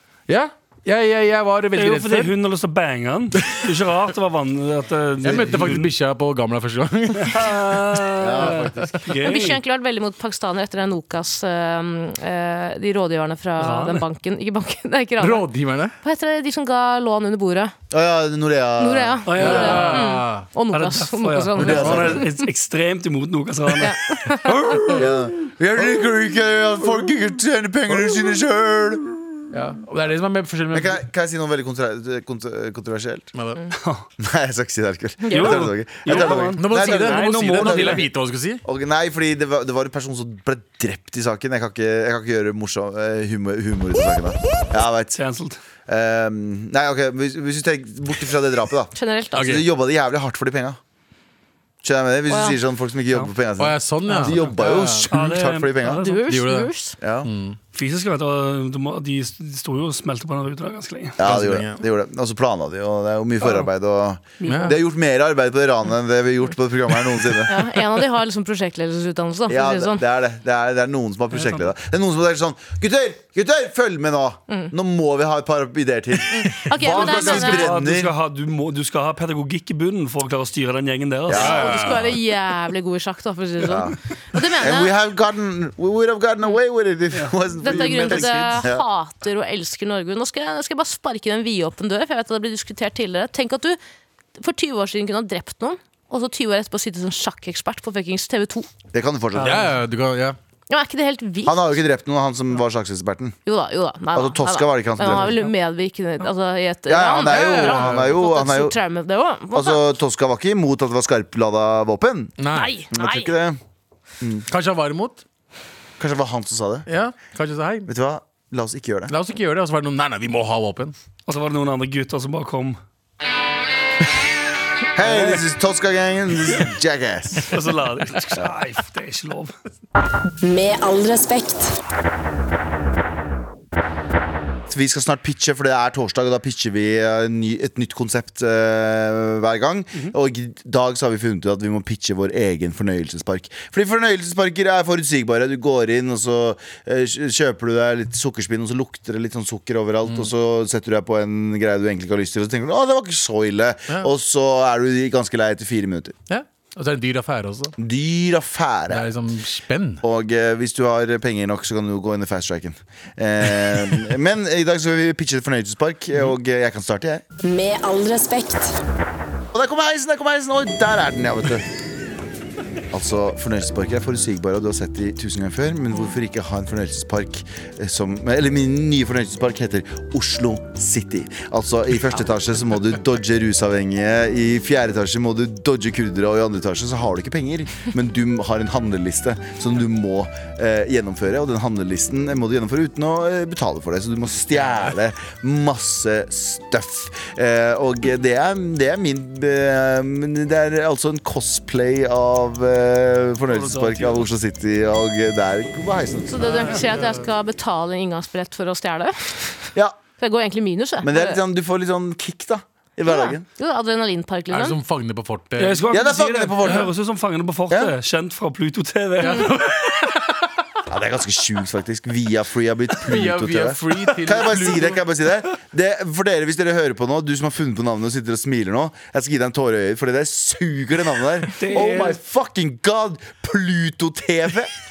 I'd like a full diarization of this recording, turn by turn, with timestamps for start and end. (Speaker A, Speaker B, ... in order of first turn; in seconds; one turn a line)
Speaker A: 0.3-2.3
Speaker B: 1.8-5.9
Speaker A: 5.2-7.6
Speaker B: 7.2-9.6
Speaker C: 8.2-9.0
Speaker A: 8.4-9.1
Speaker D: 9.2-15.5
Speaker B: 13.6-14.0
Speaker A: 15.2-15.9
Speaker D: 16.0-17.7
Speaker C: 17.9-19.6
Speaker D: 18.8-22.3
Speaker B: 19.2-20.1
Speaker A: 19.4-20.5
Speaker B: 20.7-25.1
Speaker C: 21.6-22.2
Speaker A: 21.6-22.0
Speaker D: 23.8-24.8
Speaker C: 24.9-29.2
Speaker A: 29.5-31.0
Speaker C: 30.7-33.3
Speaker A: 33.3-33.6
Speaker B: 33.7-34.0
Speaker C: 34.2-38.1
Speaker D: 35.2-35.6
Speaker B: 35.3-38.0
Speaker A: 36.1-38.6
Speaker C: 38.6-45.2
Speaker B: 45.1-45.6
Speaker C: 45.9-50.8
Speaker D: 48.9-49.4
Speaker A: 49.4-49.6
Speaker C: 51.8-56.0
Speaker D: 52.3-52.6
Speaker A: 53.6-55.1
Speaker B: 54.1-56.2
Speaker D: 55.8-56.9
Speaker A: 56.3-56.7
Speaker C: 57.0-57.3
Speaker A: 57.2-57.6
Speaker B: 57.7-61.2
Speaker C: 61.2-67.6
Speaker A: 61.2-61.8
Speaker B: 64.4-64.7
Speaker A: 64.4-64.8
Speaker D: 67.5-70.0
Speaker C: 69.5-78.1
Speaker B: 71.3-71.7
Speaker D: 76.3-77.7
Speaker B: 76.8-81.6
Speaker C: 81.3-81.9
Speaker A: 81.3-82.2
Speaker D: 81.4-84.9
Speaker C: 83.6-84.0
Speaker C: 84.5-88.8
Speaker B: 87.1-88.6
Speaker D: 87.6-93.8
Speaker D: 94.4-98.7
Speaker C: 98.9-99.7
Speaker B: 99.3-99.7
Speaker A: 99.4-100.4
Speaker D: 100.7-101.8
Speaker C: 101.5-103.3
Speaker D: 103.5-109.8
Speaker C: 104.1-105.4
Speaker C: 106.9-108.8
Speaker A: 107.3-108.2
Speaker C: 109.5-112.3
Speaker A: 112.4-112.7
Speaker D: 112.5-113.3
Speaker C: 112.9-113.6
Speaker C: 114.2-114.5
Speaker A: 114.5-115.2
Speaker C: 116.0-116.9
Speaker A: 116.9-117.9
Speaker C: 117.9-119.1
Speaker A: 119.1-120.9
Speaker B: 121.3-122.8
Speaker C: 124.9-127.5
Speaker B: 125.0-125.4
Speaker B: 127.5-129.5
Speaker E: 130.4-131.7
Speaker C: 134.7-156.1
Speaker A: 156.3-157.7
Speaker C: 157.8-159.1
Speaker A: 158.9-160.0
Speaker C: 160.0-167.2
Speaker E: 167.4-168.8
Speaker C: 169.5-171.6
Speaker C: 172.9-206.8
Speaker B: 203.5-204.2
Speaker D: 206.3-211.4
Speaker A: 206.5-207.2
Speaker C: 211.0-213.4
Speaker D: 213.1-214.8
Speaker A: 214.5-215.9
Speaker B: 215.6-219.5
Speaker C: 215.9-216.9
Speaker A: 216.6-216.9
Speaker A: 219.2-220.3
Speaker C: 220.9-234.7
Speaker A: 223.0-225.0
Speaker B: 231.6-232.2